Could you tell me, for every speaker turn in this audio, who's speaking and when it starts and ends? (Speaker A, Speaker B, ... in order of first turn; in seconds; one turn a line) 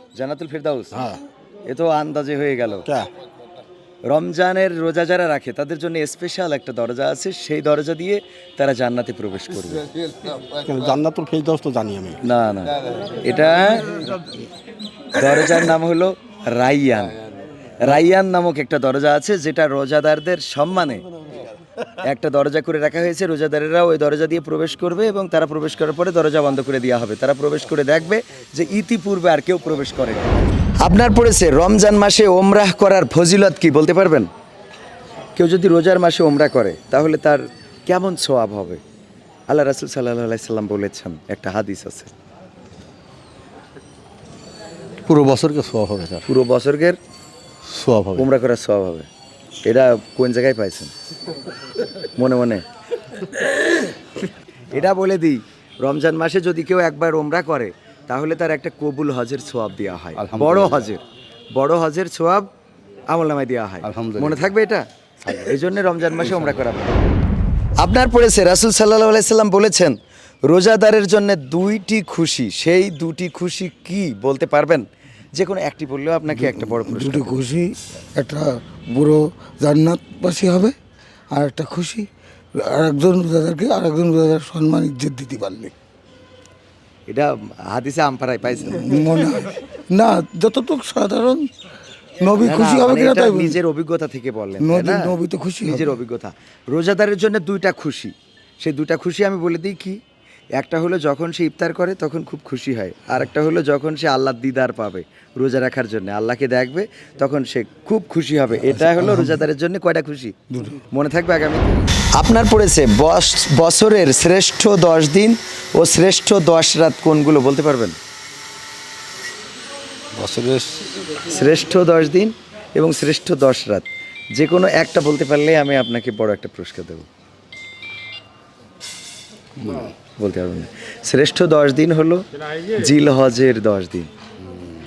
Speaker A: 0.1-1.0
Speaker A: 1.7-2.9
Speaker A: 4.1-9.8
Speaker B: 10.5-12.2
Speaker A: 12.2-14.2
Speaker A: 15.1-17.1
Speaker A: 17.8-21.0
Speaker A: 22.0-30.3
Speaker A: 30.8-34.3
Speaker A: 35.4-38.8
Speaker A: 39.5-42.1
Speaker B: 45.1-46.2
Speaker A: 46.3-47.0
Speaker B: 47.7-48.2
Speaker A: 48.1-49.1
Speaker A: 49.6-50.9
Speaker A: 52.1-52.6
Speaker A: 54.7-62.5
Speaker B: 60.1-60.9
Speaker A: 63.1-67.0
Speaker B: 63.8-64.5
Speaker B: 66.2-66.5
Speaker A: 67.8-70.0
Speaker A: 70.5-77.4
Speaker C: 76.3-80.7
Speaker C: 81.3-82.1
Speaker C: 82.6-85.7
Speaker A: 87.1-89.1
Speaker C: 88.6-91.5
Speaker C: 92.2-93.6
Speaker A: 92.4-100.0
Speaker C: 94.6-95.9
Speaker A: 100.6-110.3
Speaker C: 108.5-109.4
Speaker C: 110.5-110.8
Speaker A: 110.9-118.0
Speaker B: 120.1-120.9
Speaker A: 121.2-127.0
Speaker B: 129.6-129.9
Speaker A: 130.2-134.1